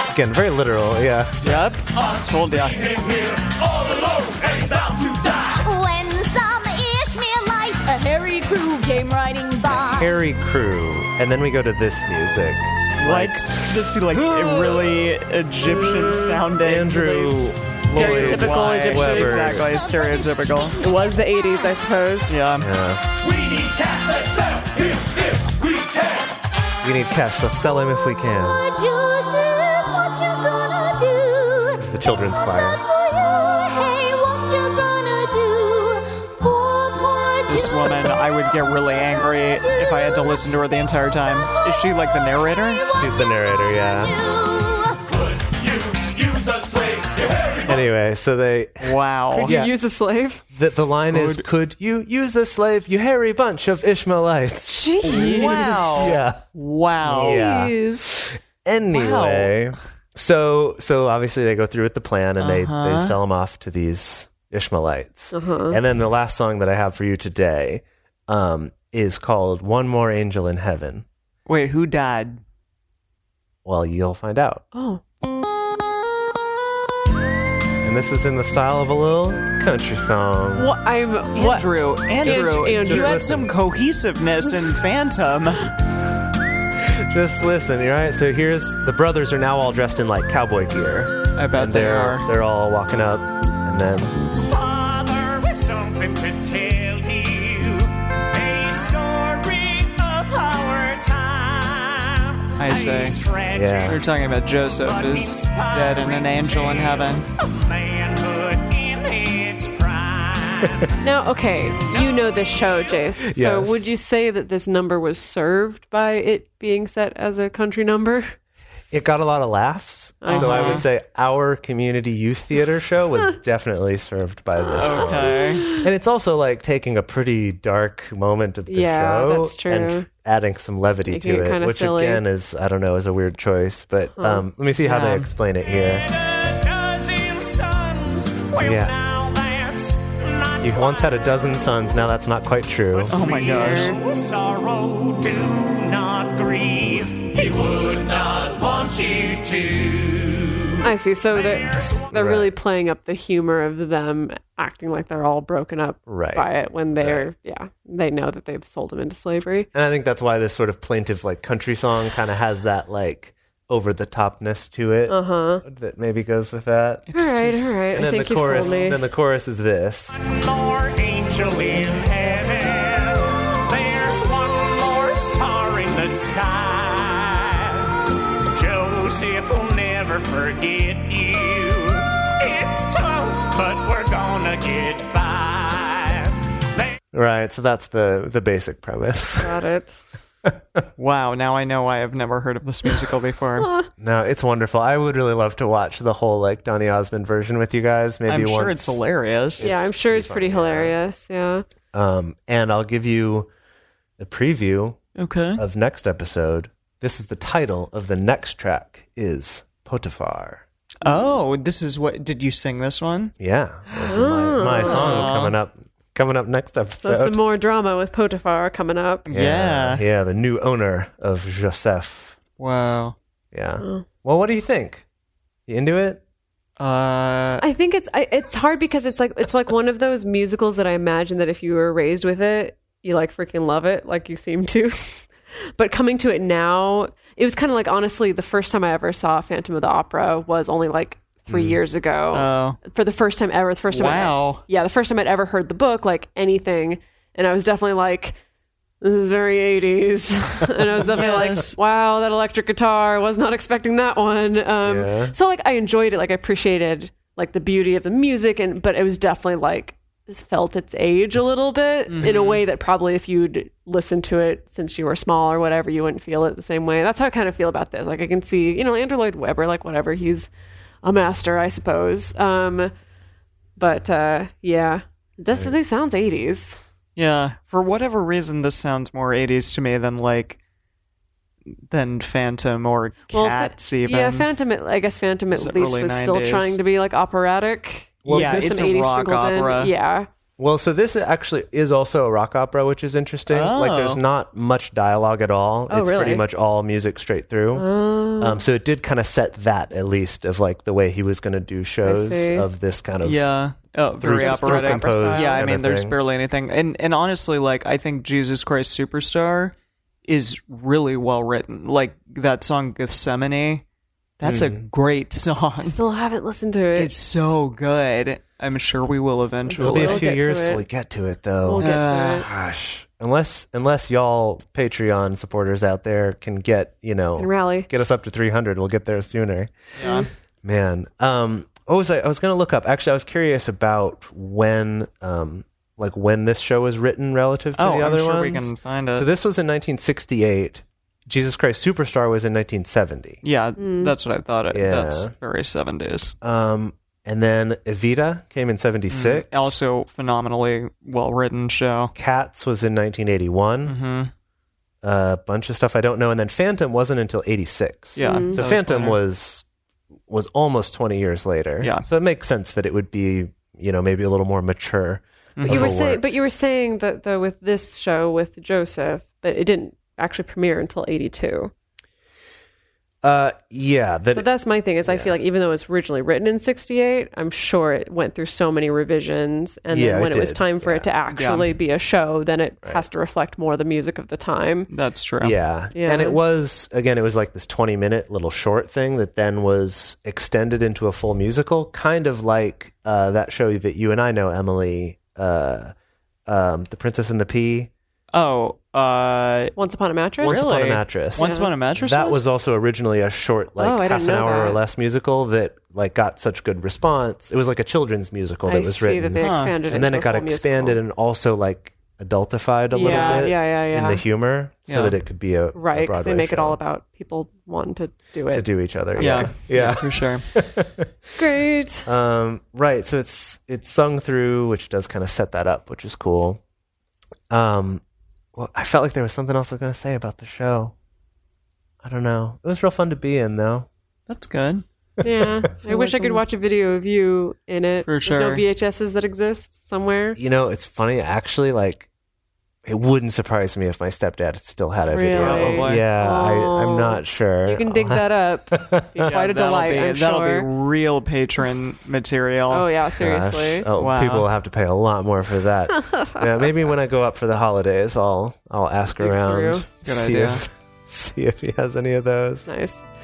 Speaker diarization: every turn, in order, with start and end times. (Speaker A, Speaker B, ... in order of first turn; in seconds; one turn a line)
Speaker A: 0.1-1.6
Speaker B: 1.4-3.4
Speaker C: 3.0-5.4
Speaker D: 4.0-4.9
Speaker E: 5.5-10.1
Speaker A: 9.8-14.9
Speaker B: 13.0-20.8
Speaker F: 15.7-16.5
Speaker A: 16.6-19.7
Speaker F: 17.9-19.7
Speaker E: 19.6-20.7
Speaker F: 20.8-22.4
Speaker B: 22.3-22.7
Speaker A: 22.6-23.1
Speaker C: 23.3-26.2
Speaker A: 26.8-28.6
Speaker E: 28.6-31.8
Speaker A: 31.8-32.8
Speaker E: 32.5-37.9
Speaker B: 37.5-42.9
Speaker A: 43.0-44.2
Speaker E: 44.2-45.0
Speaker A: 47.7-49.8
Speaker B: 48.8-49.6
Speaker F: 49.4-50.4
Speaker A: 50.5-56.4
Speaker B: 51.1-51.5
Speaker F: 54.7-56.1
Speaker B: 55.0-57.5
Speaker A: 57.0-71.0
Speaker F: 57.2-58.0
Speaker B: 58.9-59.7
Speaker B: 62.4-63.2
Speaker F: 65.3-65.8
Speaker B: 71.5-72.4
Speaker A: 73.7-74.6
Speaker F: 74.7-75.0
Speaker A: 77.8-80.7
Speaker F: 80.6-83.2
Speaker B: 81.3-85.7
Speaker A: 82.2-83.5
Speaker A: 87.1-94.1
Speaker B: 91.4-92.3
Speaker D: 94.5-103.8
Speaker B: 102.6-103.2
Speaker A: 103.5-104.0
Speaker B: 103.8-107.3
Speaker D: 104.8-110.5
Speaker F: 111.0-118.3
Speaker A: 113.2-113.9
Speaker A: 118.9-136.1
Speaker F: 120.2-120.8
Speaker B: 120.3-120.9
Speaker B: 124.8-125.7
Speaker F: 124.8-125.9
Speaker F: 128.7-130.1
Speaker F: 131.1-132.2
Speaker F: 134.2-134.4
Speaker B: 134.8-135.3
Speaker D: 136.5-140.1
Speaker A: 138.6-139.0
Speaker A: 140.6-143.2
Speaker B: 143.1-143.9
Speaker F: 143.2-144.0
Speaker D: 144.1-149.8
Speaker F: 150.8-159.7
Speaker A: 152.1-152.5
Speaker A: 156.1-157.3
Speaker A: 159.7-167.1
Speaker F: 165.1-165.6
Speaker B: 167.1-168.8
Speaker F: 167.1-169.0
Speaker A: 167.9-170.2
Speaker D: 170.3-173.1
Speaker D: 173.7-177.1
Speaker C: 177.1-177.8
Speaker D: 178.6-186.3
Speaker A: 187.1-189.6
Speaker F: 189.4-189.9
Speaker B: 191.0-193.7
Speaker F: 193.6-193.9
Speaker A: 194.0-199.0
Speaker B: 198.3-199.8
Speaker A: 199.6-201.0
Speaker F: 199.6-201.7
Speaker A: 201.9-203.5
Speaker A: 204.2-205.0
Speaker B: 205.2-205.6
Speaker A: 205.6-210.7
Speaker B: 211.0-213.3
Speaker F: 211.1-211.4
Speaker A: 213.4-217.4
Speaker F: 214.1-215.4
Speaker B: 214.7-215.6
Speaker F: 217.0-219.3
Speaker B: 219.3-220.1
Speaker A: 219.3-222.4
Speaker B: 222.6-223.2
Speaker A: 223.5-225.1
Speaker F: 223.8-224.1
Speaker A: 225.7-226.2
Speaker B: 226.8-227.6
Speaker F: 227.6-248.4
Speaker A: 241.5-241.8
Speaker B: 242.3-242.8
Speaker B: 243.9-244.6
Speaker F: 249.0-270.5
Speaker B: 251.2-251.8
Speaker A: 254.8-255.3
Speaker B: 262.1-262.6
Speaker F: 271.0-272.9
Speaker F: 273.8-276.8
Speaker B: 277.2-280.6
Speaker B: 281.9-284.5
Speaker F: 283.3-290.3
Speaker B: 285.5-286.8
Speaker A: 288.2-289.0
Speaker B: 288.3-289.9
Speaker A: 290.6-297.9
Speaker B: 293.5-294.2
Speaker F: 295.9-296.4
Speaker F: 297.8-298.6
Speaker A: 298.4-303.5
Speaker F: 302.0-302.7
Speaker B: 303.2-309.7
Speaker A: 304.2-306.2
Speaker F: 304.3-305.6
Speaker B: 310.3-313.8
Speaker B: 314.4-316.0
Speaker A: 314.4-314.8
Speaker F: 315.8-317.1
Speaker B: 317.0-320.2
Speaker F: 319.7-320.9
Speaker A: 319.8-329.7
Speaker F: 321.6-322.5
Speaker B: 321.8-322.5
Speaker F: 327.4-327.9
Speaker B: 330.0-330.3
Speaker A: 330.6-343.4
Speaker B: 337.8-339.3
Speaker B: 343.4-346.3
Speaker F: 343.8-344.1
Speaker A: 344.7-345.3
Speaker A: 346.4-349.8
Speaker B: 349.1-352.1
Speaker A: 352.1-354.0
Speaker B: 353.9-354.3
Speaker A: 355.0-359.6
Speaker B: 358.1-359.2
Speaker F: 358.2-358.6
Speaker A: 360.3-366.2
Speaker B: 361.8-362.1
Speaker B: 365.6-366.0
Speaker F: 365.6-371.7
Speaker A: 373.2-374.5
Speaker F: 374.3-384.9
Speaker A: 375.1-375.4
Speaker A: 379.9-381.1
Speaker B: 381.3-381.7
Speaker B: 384.9-385.6
Speaker A: 385.4-395.9
Speaker F: 385.9-386.4
Speaker A: 396.5-397.9
Speaker B: 398.3-399.7
Speaker F: 399.8-400.6
Speaker A: 400.4-416.8
Speaker B: 400.4-402.4
Speaker F: 401.4-401.8
Speaker F: 403.8-404.8
Speaker F: 408.6-411.0
Speaker B: 409.4-409.8
Speaker F: 412.9-414.2
Speaker B: 413.0-413.5
Speaker B: 414.9-415.2
Speaker F: 415.7-419.6
Speaker A: 418.5-421.1
Speaker B: 419.2-420.4
Speaker F: 421.4-422.1
Speaker A: 422.1-426.6
Speaker A: 427.5-428.0
Speaker A: 428.6-430.9
Speaker A: 432.0-433.9
Speaker B: 434.3-434.9
Speaker F: 435.2-440.4
Speaker B: 435.9-436.4
Speaker B: 438.0-438.6
Speaker A: 440.4-442.1
Speaker A: 442.9-449.3
Speaker F: 445.1-450.7
Speaker B: 445.4-446.1
Speaker B: 449.2-452.9
Speaker F: 452.7-453.9
Speaker A: 453.1-462.7
Speaker B: 454.0-454.5
Speaker F: 459.2-459.9
Speaker B: 460.0-460.6
Speaker F: 462.7-463.0